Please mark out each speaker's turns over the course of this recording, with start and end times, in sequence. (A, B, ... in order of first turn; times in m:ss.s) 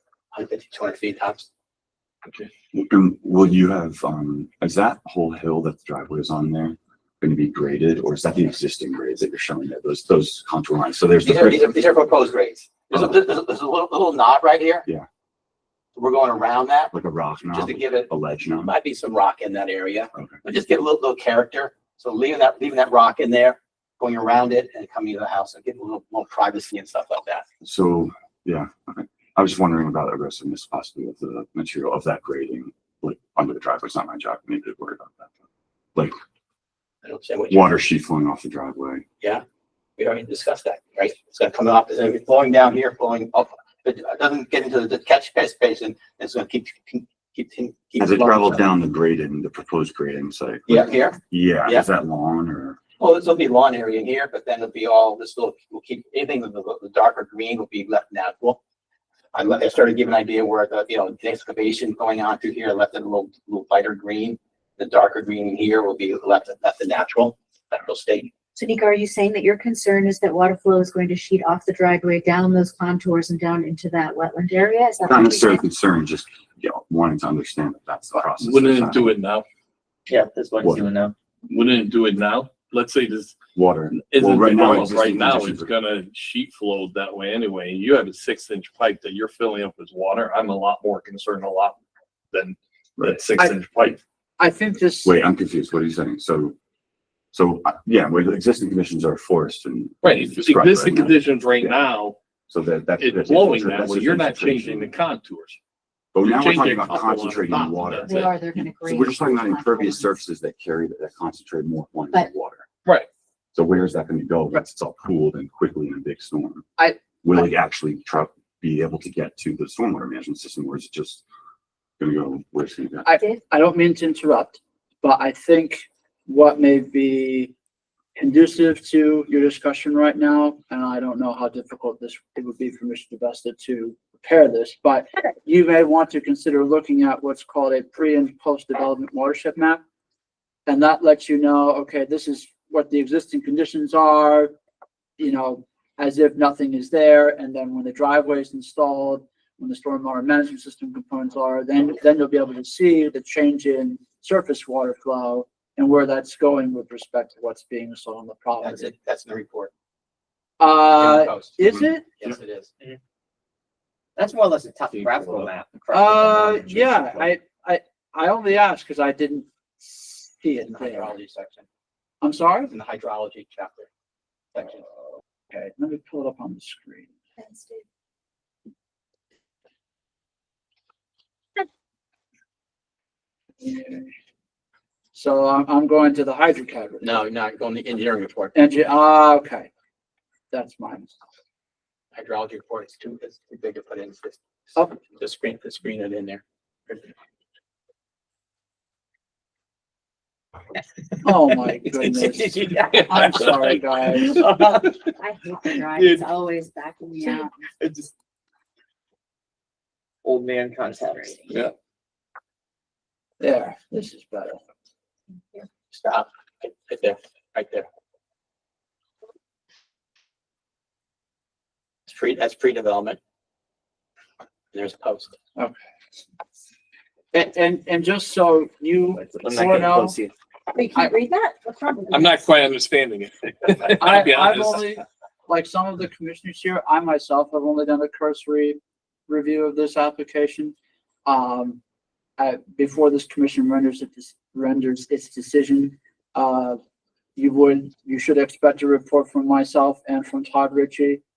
0:00.3-0:01.5 A
0:02.7-0:11.7 B
0:11.2-0:14.9 A
0:16.0-0:17.0 A
0:16.9-0:18.7 B
0:17.5-0:18.1 A
0:18.6-0:27.4 A
0:27.6-0:35.3 B
0:37.0-0:37.6 A
0:37.5-0:39.0 B
0:40.0-0:48.7 A
0:48.0-0:52.8 B
0:50.7-0:51.8 A
0:53.0-0:58.6 A
0:59.3-1:08.3 A
1:08.5-1:15.7 C
1:15.0-1:19.2 B
1:18.4-1:19.4 D
1:20.1-1:21.1 E
1:20.6-1:20.9 B
1:21.5-1:23.4 D
1:23.6-1:25.7 B
1:24.1-1:31.8 D
1:32.3-1:34.0 D
1:33.0-1:33.2 B
1:34.4-1:35.2 F
1:35.0-1:36.6 B
1:37.3-1:41.8 B
1:40.0-1:42.2 D
1:42.5-1:45.0 B
1:43.0-1:45.6 D
1:46.1-1:52.7 B
1:46.2-1:48.3 D
1:47.9-1:50.2 C
1:53.5-1:56.7 B
1:57.2-2:01.2 B
2:02.0-2:03.1 B
2:03.1-2:07.5 F
2:08.2-2:19.8 F
2:20.7-2:24.5 F
2:25.2-2:38.9 F
2:38.6-2:39.7 A
2:40.6-2:42.1 F
2:40.9-2:42.7 A
2:44.2-2:47.3 E
2:45.9-2:51.2 F
2:50.7-2:51.7 A
2:52.2-2:52.7 F
2:52.7-2:53.9 A
2:54.5-2:54.8 A
2:55.5-2:57.1 F
2:57.4-2:57.8 C
3:03.6-3:04.1 F
3:05.1-3:07.2 F
3:07.0-3:08.6 A
3:08.5-3:09.7 F
3:10.5-3:11.2 F
3:12.1-3:14.4 A
3:14.9-3:17.1 A
3:21.2-3:24.4 F
3:22.1-3:23.0 E
3:22.9-3:24.7 D
3:24.5-3:24.8 E
3:25.2-3:27.5 C
3:27.8-3:28.1 E
3:30.2-3:31.3 E
3:31.2-3:31.6 C
3:33.4-3:34.6 F
3:35.9-3:37.9 A
3:42.1-3:43.2 A
3:44.7-3:45.4 A
3:47.3-3:50.2 F
3:49.2-3:50.3 E
3:50.7-3:52.4 C
3:52.1-3:54.9 D
3:53.9-4:00.7 F
4:01.2-4:01.8 F
4:02.4-4:06.8 F
4:07.4-4:11.2 F